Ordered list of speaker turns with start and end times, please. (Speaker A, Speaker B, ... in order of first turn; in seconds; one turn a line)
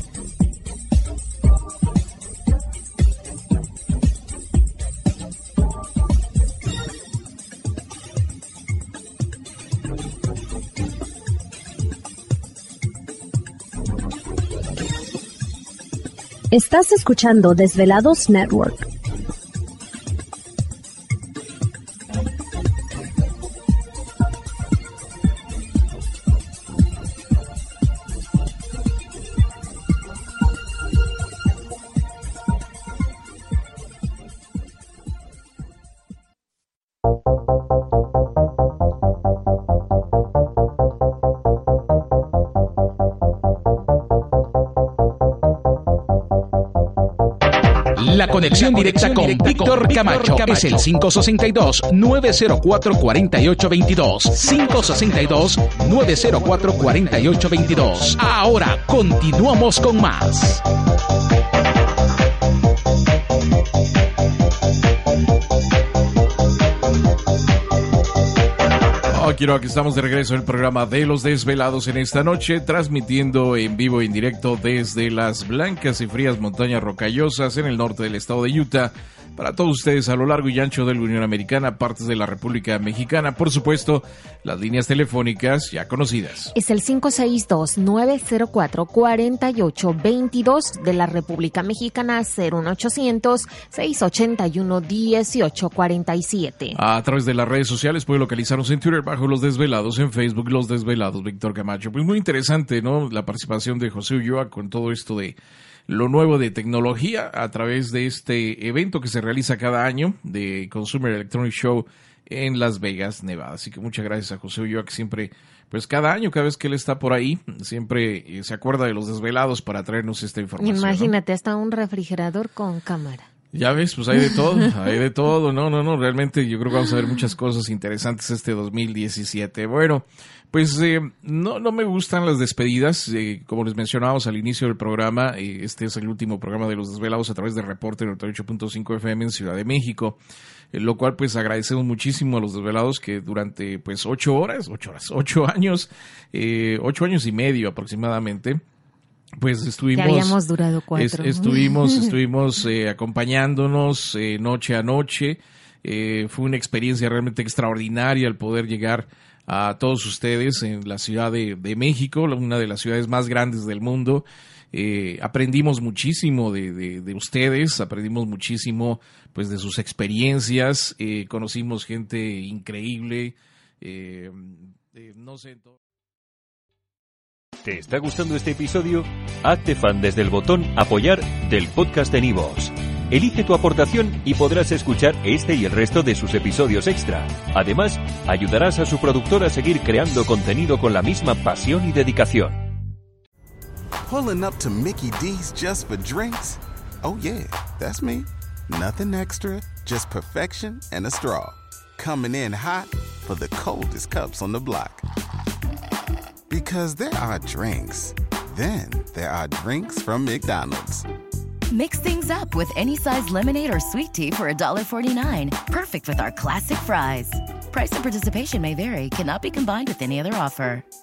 Speaker A: 16.5-18.9
Speaker B: 48.0-60.6
Speaker C: 69.1-86.5
Speaker D: 86.6-96.8
Speaker C: 96.7-105.4
Speaker C: 105.9-121.2
Speaker D: 120.6-123.2
Speaker C: 123.5-140.2
Speaker C: 140.7-148.6
Speaker C: 149.4-150.4
Speaker D: 150.0-151.4
Speaker C: 150.9-175.8
Speaker E: 177.7-192.6
Speaker F: 194.1-205.1
Speaker F: 206.5-211.1
Speaker G: 211.7-220.8